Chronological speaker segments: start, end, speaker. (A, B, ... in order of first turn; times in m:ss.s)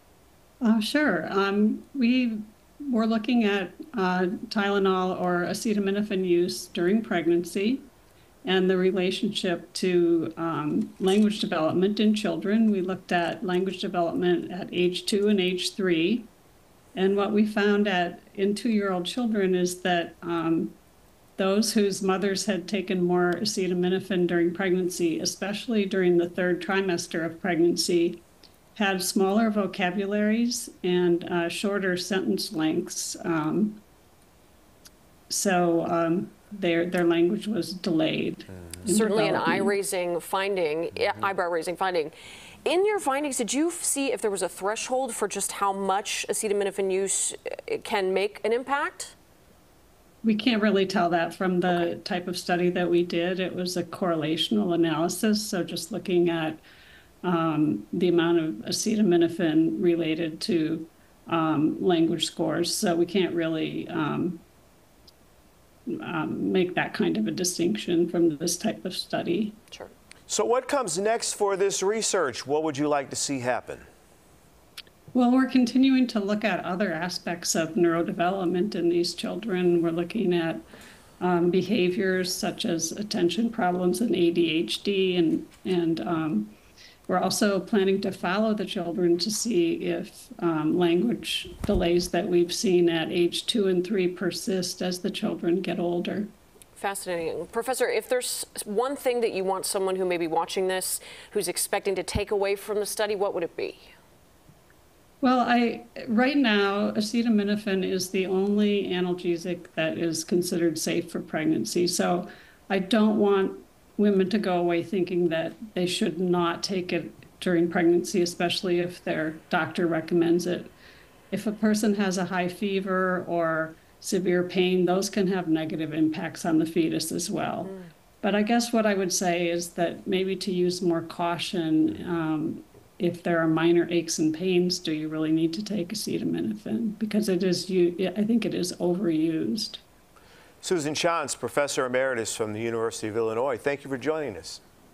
0:00.6-0:07.9 A
0:08.4-0:16.3 A
0:16.9-0:20.8 A
0:21.4-0:28.2 A
0:28.7-0:33.8 A
0:35.3-0:39.8 A
0:38.8-0:42.1 B
0:42.6-0:49.2 B
0:50.2-0:56.6 A
0:57.2-1:04.4 A
1:05.9-1:09.6 A
1:10.3-1:13.9 C
1:15.1-1:20.6 A
1:21.2-1:26.5 A
1:27.1-1:36.3 A
1:36.7-1:43.9 B
1:45.2-2:00.7 A
2:01.3-2:19.8 A
2:20.6-2:24.6 C